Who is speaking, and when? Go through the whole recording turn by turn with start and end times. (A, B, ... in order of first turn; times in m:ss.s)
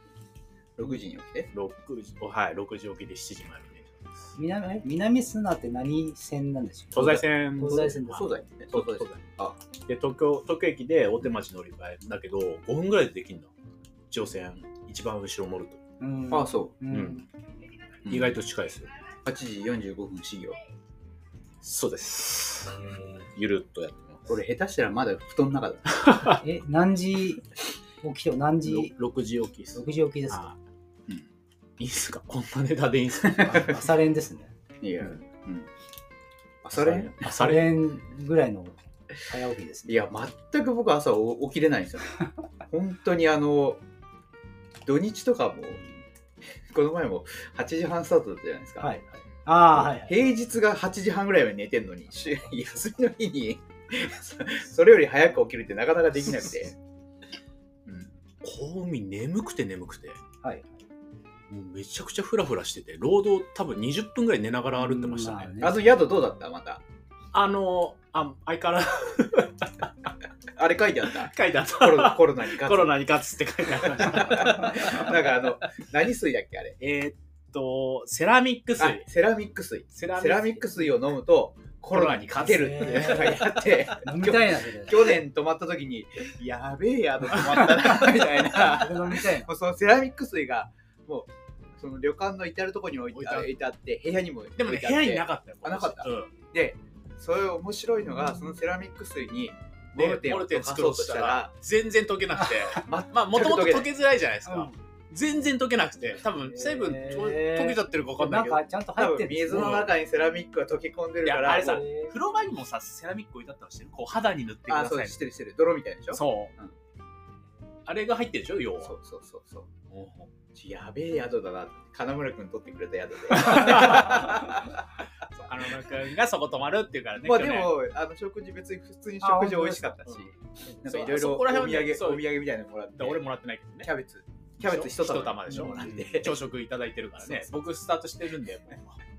0:00.8-0:01.5 A
0:01.5-0:04.3 B
0:04.4-0:08.4 C
0:06.9-0:08.0 B
0:07.9-0:09.6 A
0:08.7-0:09.2 B
0:09.8-0:13.5 B
0:14.1-0:15.8 B
0:16.0-0:17.2 C
0:16.3-0:16.8 A
0:16.9-0:17.2 B
0:18.0-0:18.4 A
0:18.1-0:18.9 B
0:19.2-0:20.6 A
0:21.6-0:24.2 B
0:24.3-0:26.1 A
0:26.0-0:26.4 B
0:26.4-0:27.4 C
0:28.0-0:28.9 C
0:28.6-0:30.6 B
0:29.7-0:30.4 C
0:31.8-0:33.8 B
0:33.4-0:34.5 C
0:34.8-0:35.7 A
0:36.6-0:37.1 A
0:36.7-0:37.7 B
0:37.2-0:40.0 C
0:39.9-0:42.1 A
0:42.7-0:43.8 A
0:44.8-0:45.8 A
0:46.5-0:48.9 A
0:48.8-0:50.2 C
0:49.7-0:56.7 A
0:57.8-0:58.1 A
0:58.4-1:00.2 B
1:00.4-1:00.7 C
1:01.5-1:05.6 B
1:04.7-1:05.9 C
1:05.6-1:06.8 A
1:07.3-1:09.7 B
1:10.5-1:13.0 A
1:11.2-1:15.2 B
1:13.8-1:16.8 A
1:16.8-1:19.0 B
1:18.8-1:41.5 A
1:19.9-1:20.8 B
1:21.9-1:25.1 C
1:22.8-1:23.2 B
1:28.0-1:29.5 C
1:33.1-1:33.5 B
1:34.6-1:36.3 B
1:39.9-1:48.6 B
1:42.7-1:43.9 A
1:44.4-1:44.7 C
1:46.5-1:49.8 C
1:49.0-1:51.8 A
1:49.5-1:49.9 B
1:51.2-1:55.2 B
1:51.7-1:52.1 C
1:54.7-1:56.7 A
1:56.1-1:56.5 B
1:57.8-1:58.9 B
1:58.8-1:59.7 A
1:59.9-2:00.3 B
2:00.5-2:04.9 A
2:03.4-2:04.5 B
2:05.5-2:07.7 B
2:07.2-2:13.2 A
2:09.2-2:10.0 C
2:10.8-2:12.2 B
2:13.0-2:13.9 B
2:13.8-2:16.4 A
2:14.6-2:19.0 B
2:15.6-2:16.0 C
2:17.2-2:17.5 A